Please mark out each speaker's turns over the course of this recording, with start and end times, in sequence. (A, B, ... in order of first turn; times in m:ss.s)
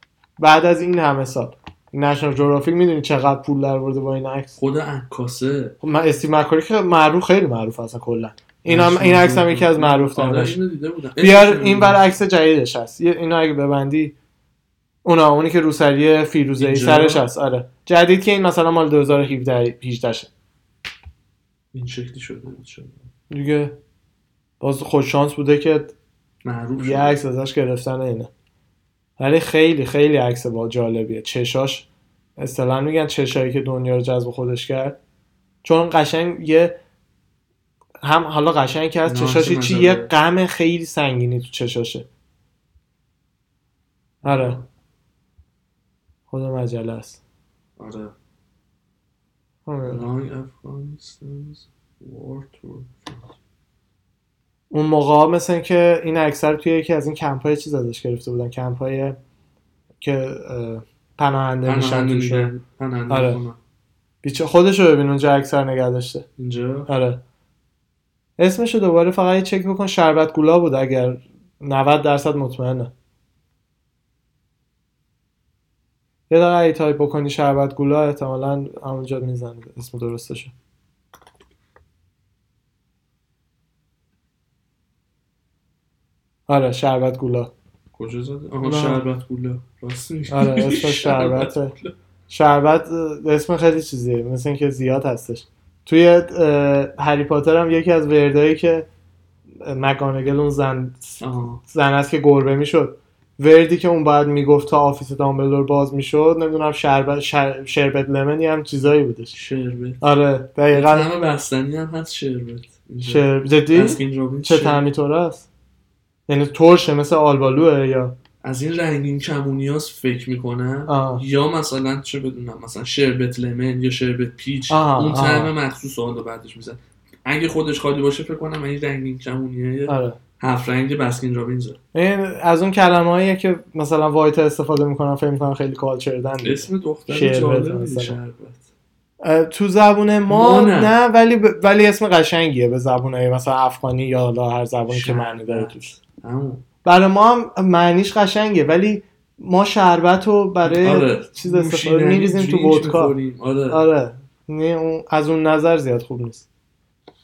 0:00.4-0:04.5 A
0:04.6-0:05.8 B
0:05.8-0:10.6 A
0:08.6-0:12.1 B
0:11.2-0:14.1 A
0:15.0-0:20.3 A
0:16.6-0:17.2 B
0:21.7-0:23.0 B
0:23.3-0:23.8 A
0:24.6-0:25.9 A
0:26.4-0:27.2 B
0:26.8-0:28.3 A
0:29.2-0:31.8 A
0:32.4-0:35.0 A
0:35.6-0:36.8 A
0:38.0-0:42.1 A
0:39.0-0:40.1 B
0:44.2-0:44.6 A
0:44.2-0:44.6 B
0:46.3-0:47.2 A
0:47.8-0:48.1 B
0:49.6-0:50.0 A
0:49.8-0:53.3 B
0:54.7-0:59.2 A
1:00.0-1:02.5 A
1:01.6-1:03.6 B
1:03.1-1:03.4 A
1:04.2-1:06.2 A
1:06.4-1:06.9 B
1:06.9-1:07.2 A
1:08.4-1:12.9 A
1:16.3-1:20.5 A
1:26.5-1:27.5 A
1:27.9-1:31.9 B
1:28.6-1:29.0 A
1:30.3-1:31.7 A
1:32.3-1:38.9 A
1:39.6-1:49.3 A
1:41.2-1:41.6 B
1:49.3-1:50.0 B
1:50.0-1:51.1 A
1:50.7-1:54.8 B
1:53.0-1:55.5 A
1:56.3-1:58.2 A
1:58.4-2:11.8 B
2:00.9-2:01.2 A
2:04.7-2:05.5 A
2:09.9-2:10.2 A
2:11.9-2:18.2 A
2:16.4-2:18.6 B
2:19.2-2:25.9 A
2:20.3-2:20.9 B
2:24.9-2:26.6 B
2:26.8-2:33.1 A
2:30.6-2:33.8 B
2:33.7-2:36.4 A